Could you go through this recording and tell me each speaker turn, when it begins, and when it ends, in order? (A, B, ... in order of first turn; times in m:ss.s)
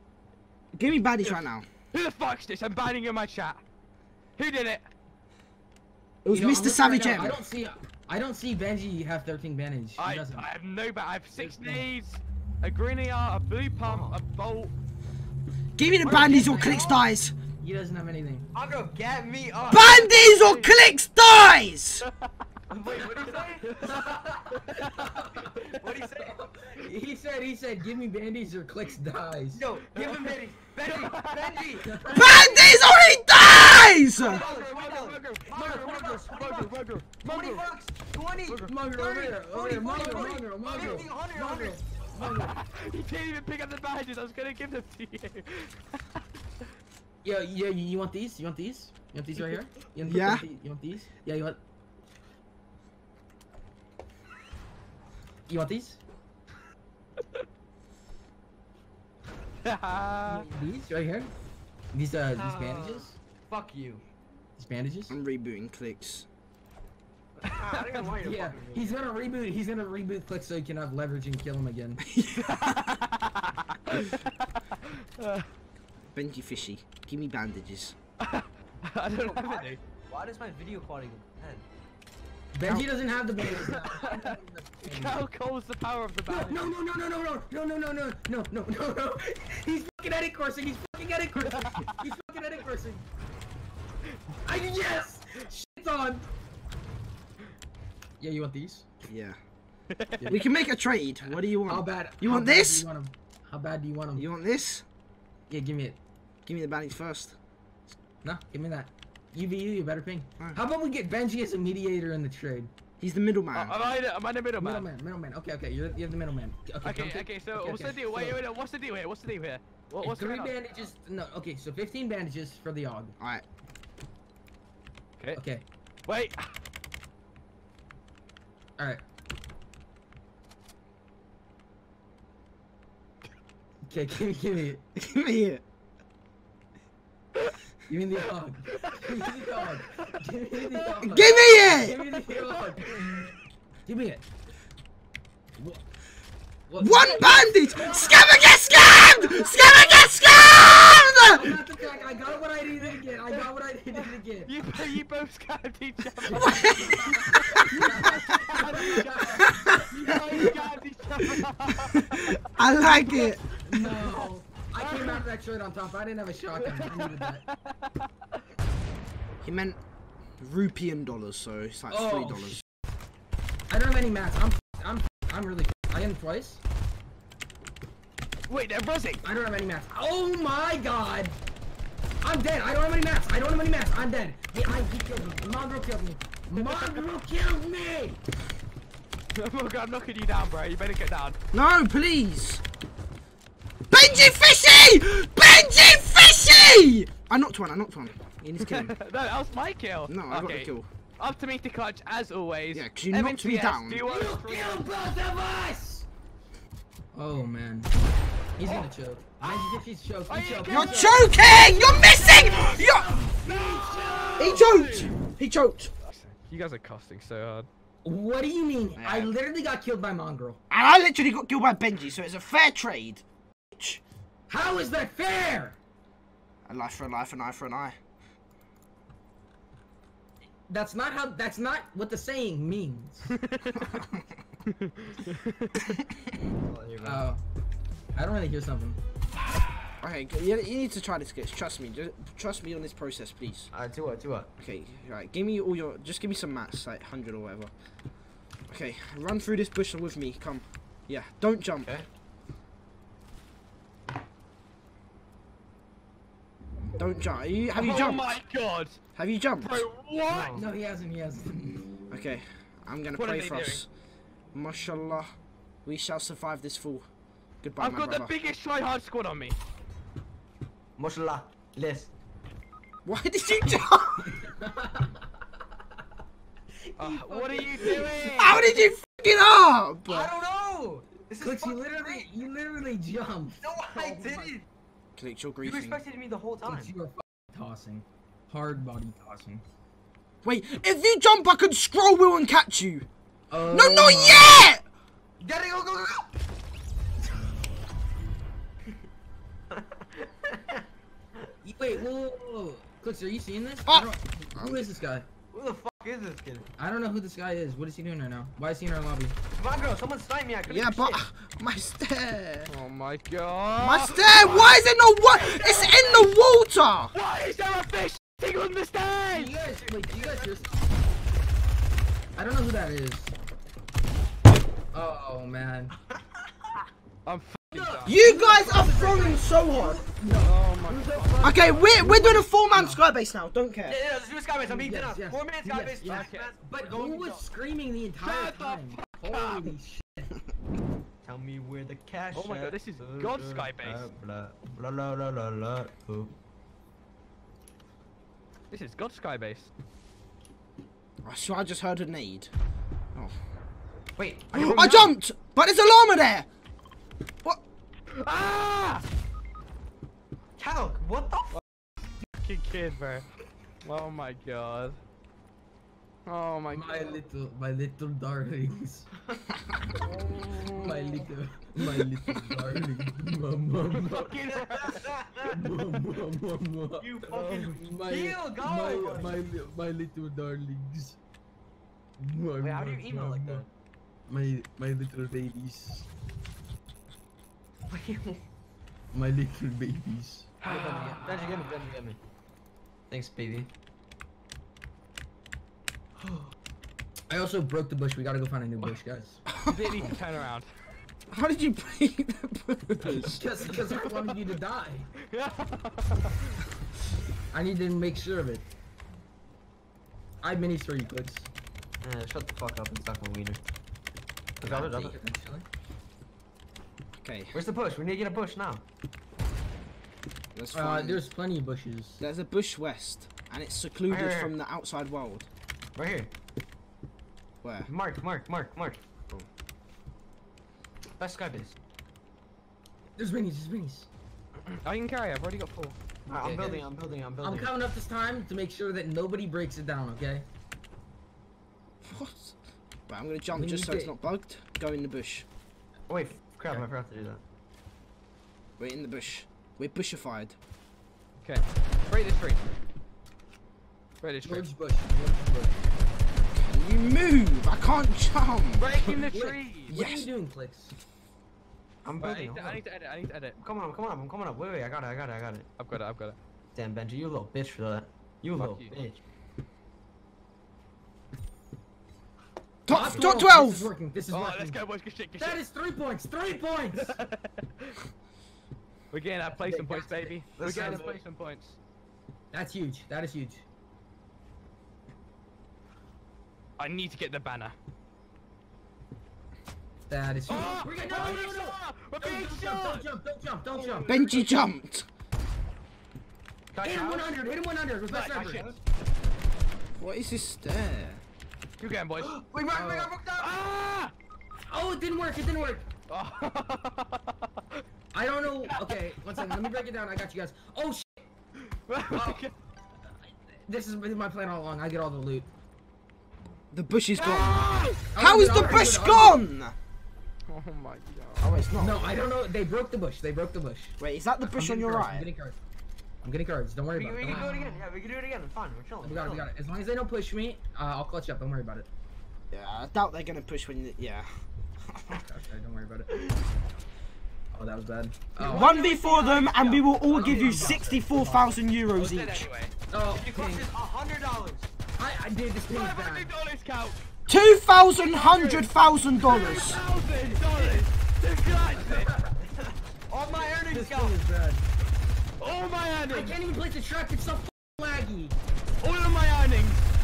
0:00.7-0:01.7 A
0:01.2-0:03.6 B
0:04.4-0:04.8 B
0:06.2-0:07.4 A
0:06.3-0:10.5 C
0:10.0-0:14.7 B
0:11.4-0:11.9 C
0:13.8-0:14.2 D
0:15.8-0:17.4 A
0:16.2-0:17.0 D
0:17.6-0:18.5 C
0:18.5-0:20.0 D
0:19.7-0:22.1 A
0:19.8-0:20.7 B
0:22.7-0:24.2 D
0:23.0-0:25.6 C
0:24.7-0:25.0 B
0:25.7-0:26.6 D
0:26.2-0:29.6 C
0:29.5-0:32.0 D
0:29.9-0:31.6 B
0:31.8-0:32.7 C
0:32.1-0:34.4 A
0:34.2-0:36.7 D
0:34.3-0:37.7 B
0:35.6-0:36.4 C
0:37.2-0:41.8 D
0:38.5-0:42.5 C
0:42.2-0:46.0 B
0:47.2-0:51.6 C
0:50.0-0:50.4 A
0:55.5-0:56.0 C
0:59.6-1:00.5 B
1:00.3-1:01.3 C
1:01.9-1:03.1 C
1:02.4-1:04.0 D
1:04.6-1:05.2 C
1:05.1-1:06.3 A
1:07.4-1:08.9 D
1:07.8-1:12.0 C
1:12.1-1:12.9 A
1:12.4-1:15.5 B
1:16.1-1:18.0 A
1:18.2-1:19.8 B
1:19.2-1:21.7 D
1:22.5-1:25.3 C
1:23.5-1:26.7 B
1:26.3-1:33.0 C
1:31.4-1:32.0 B
1:34.5-1:36.3 C
1:38.2-1:38.9 C
1:39.1-1:39.4 A
1:39.9-1:40.4 B
1:40.3-1:42.9 A
1:41.6-1:44.2 C
1:44.2-1:44.8 A
1:45.5-1:46.0 C
1:46.5-1:47.4 A
1:48.2-1:52.7 C
1:53.0-1:53.8 A
1:53.5-1:54.9 B
1:54.6-1:58.4 C
1:56.8-2:00.6 B
2:00.0-2:03.2 C
2:05.4-2:05.6 C
2:06.1-2:06.5 B
2:13.9-2:14.8 C
2:15.0-2:15.6 A
2:17.9-2:22.9 C
2:21.0-2:22.0 A
2:23.9-2:24.2 C
2:25.6-2:25.8 C
2:26.7-2:30.1 C
2:26.8-2:31.6 A
2:31.2-2:34.6 C
2:34.5-2:39.4 B
2:36.3-2:37.8 A
2:36.3-2:40.6 C
2:39.9-2:45.2 B
2:41.2-2:43.4 A
2:43.6-2:47.4 C
2:46.6-2:48.1 B
2:49.4-2:49.8 A
2:50.4-2:52.6 A
2:51.9-2:52.6 C
2:53.7-2:56.6 C
2:58.5-2:59.2 B
2:59.2-3:01.4 C
3:02.2-3:08.2 C
3:06.6-3:07.0 B
3:09.4-3:11.4 B
3:11.5-3:12.6 A
3:13.9-3:18.9 A
3:18.6-3:24.9 B
3:20.1-3:20.9 A
3:22.7-3:24.0 A
3:24.0-3:26.1 C
3:27.1-3:27.9 C
3:28.6-3:34.6 C
3:29.4-3:31.1 B
3:30.7-3:33.1 A
3:33.4-3:35.1 B
3:34.4-3:35.9 A
3:36.0-3:37.7 B
3:38.0-3:40.6 C
3:39.0-3:39.3 A
3:40.7-3:44.0 A
3:44.5-3:45.8 C
3:46.7-3:48.0 A
3:50.7-3:53.4 C
3:53.4-3:53.8 B
3:53.8-3:54.3 A
3:54.7-3:56.0 B
3:56.6-3:57.3 D
3:57.0-3:57.4 C
3:58.2-3:59.0 C
4:00.0-4:03.7 A
4:03.7-4:04.5 D
4:04.6-4:07.7 A
4:08.7-4:11.9 A
4:17.0-4:18.4 A
4:17.7-4:19.0 B
4:19.2-4:19.8 A
4:19.6-4:20.6 B
4:20.3-4:20.7 D
4:20.5-4:21.9 C
4:22.1-4:23.9 A
4:23.2-4:23.8 B
4:24.5-4:25.3 A
4:25.8-4:27.1 A
4:27.6-4:28.4 A
4:27.8-4:29.6 B
4:31.0-4:32.1 D
4:33.0-4:34.4 A
4:34.2-4:35.2 C
4:36.8-4:38.8 C
4:37.0-4:38.6 B
4:38.4-4:40.3 A
4:40.1-4:42.3 D
4:41.4-4:44.6 C
4:43.6-4:44.7 D
4:45.2-4:46.0 A
4:45.6-4:46.9 D
4:46.6-4:49.6 C
4:50.4-4:53.1 A
4:53.5-4:54.6 C
4:53.7-4:54.8 A
4:55.4-4:56.3 D
4:59.7-5:00.8 D
5:01.6-5:05.3 C
5:03.9-5:04.9 A
5:05.5-5:06.7 D
5:06.8-5:09.4 C
5:09.6-5:11.2 D
5:10.7-5:12.7 A
5:12.7-5:14.7 B
5:13.8-5:17.1 A
5:15.4-5:16.3 D
5:17.1-5:19.5 B
5:19.3-5:20.7 C
5:19.6-5:20.8 D
5:22.4-5:23.3 C
5:24.9-5:25.9 C
5:27.2-5:28.2 B
5:27.7-5:33.0 C
5:28.0-5:30.0 A
5:30.4-5:31.5 B
5:31.2-5:31.6 D
5:31.4-5:34.0 A
5:33.9-5:37.4 D
5:34.7-5:40.4 C
5:36.0-5:36.5 B
5:38.2-5:39.7 B
5:41.2-5:46.4 D
5:42.3-5:44.1 B
5:48.7-5:49.7 B
5:51.2-5:52.5 A
5:54.2-5:55.1 D
5:54.5-5:56.5 A
5:58.1-5:59.0 B
6:00.6-6:01.6 D
6:02.2-6:03.3 B
6:03.8-6:05.0 B
6:06.3-6:07.0 B
6:06.7-6:09.1 C
6:10.0-6:11.3 B
6:10.7-6:14.4 C
6:13.9-6:15.1 B
6:14.5-6:15.6 D
6:15.5-6:17.1 C
6:17.0-6:19.4 D
6:17.3-6:17.7 B
6:17.7-6:21.2 C
6:22.2-6:23.6 C
6:22.6-6:23.7 D
6:24.3-6:26.1 C
6:27.9-6:28.4 D
6:29.1-6:31.4 C
6:30.6-6:32.2 D
6:30.7-6:31.5 B
6:33.1-6:33.7 D
6:36.2-6:36.5 D
6:37.3-6:39.4 C
6:39.5-6:40.1 A
6:39.6-6:40.7 B
6:41.3-6:43.4 A
6:43.1-6:45.1 C
6:44.0-6:44.4 B
6:45.3-6:46.4 B
6:47.5-6:48.6 C
6:50.4-6:51.5 C
6:52.0-6:53.6 D
6:54.6-6:55.2 D
6:54.6-6:55.1 A
6:54.9-6:55.6 C
6:57.2-6:57.6 A
6:57.5-6:58.8 D
7:00.6-7:01.3 A
7:00.7-7:02.2 C
7:02.2-7:05.5 A
7:04.1-7:04.6 D
7:06.0-7:06.3 D
7:07.6-7:07.9 A
7:07.9-7:09.0 D
7:11.2-7:11.8 D
7:13.2-7:14.1 C
7:14.8-7:16.0 B
7:16.3-7:17.7 D
7:16.4-7:16.8 C
7:17.4-7:20.5 C
7:22.0-7:22.6 A
7:23.1-7:25.4 A
7:23.5-7:24.2 C
7:26.1-7:27.4 D
7:28.8-7:30.6 A
7:31.4-7:32.6 B
7:34.2-7:34.7 B
7:34.4-7:35.9 C
7:36.5-7:38.9 A
7:38.8-7:39.9 B
7:39.1-7:40.9 C
7:39.9-7:40.3 A
7:42.0-7:42.8 D
7:42.2-7:43.6 B
7:43.6-7:45.7 D
7:45.8-7:46.4 B
7:46.8-7:49.2 D
7:48.6-7:49.0 B
7:52.9-7:53.9 A
7:52.9-7:54.8 C
7:54.3-7:55.6 B
7:55.4-7:57.2 C
7:56.9-7:58.0 B
7:59.1-8:01.8 B
7:59.5-8:01.2 D
8:00.6-8:01.1 C
8:02.5-8:03.6 C
8:06.8-8:07.8 B
8:10.1-8:14.1 C
8:10.5-8:13.1 B
8:13.7-8:14.6 B
8:14.1-8:15.1 A
8:16.7-8:17.3 D
8:16.8-8:18.6 C
8:18.1-8:18.7 B
8:18.4-8:18.8 D
8:20.0-8:21.2 A
8:21.8-8:22.4 B
8:22.2-8:23.5 D
8:22.7-8:23.2 C
8:23.4-8:24.1 B
8:24.7-8:25.8 C
8:26.1-8:27.8 B
8:28.1-8:31.3 C
8:31.9-8:32.5 B
8:32.1-8:32.4 C
8:33.6-8:35.5 C
8:36.7-8:39.8 A
8:37.2-8:38.0 B
8:38.1-8:39.4 C
8:40.5-8:41.6 B
8:41.4-8:42.2 A
8:41.8-8:45.6 C
8:44.0-8:45.3 A
8:46.2-8:47.8 C
8:46.9-8:49.5 D
8:47.2-8:47.6 B
8:49.0-8:51.9 C
8:52.5-8:54.3 A
8:54.9-8:55.2 A
8:55.1-8:56.1 C
8:57.5-8:58.8 C
8:58.4-9:00.8 B
8:58.5-9:00.4 D
8:58.5-9:02.5 A
9:00.1-9:01.6 C
9:01.9-9:02.8 B
9:02.9-9:03.7 C
9:03.1-9:04.7 D
9:05.0-9:06.3 C
9:05.7-9:07.0 B
9:07.3-9:09.8 A
9:08.1-9:12.1 B
9:10.2-9:10.9 D
9:11.8-9:12.3 C
9:12.4-9:14.2 D
9:13.7-9:14.6 C
9:15.4-9:16.4 B
9:16.1-9:18.4 C
9:18.8-9:19.8 B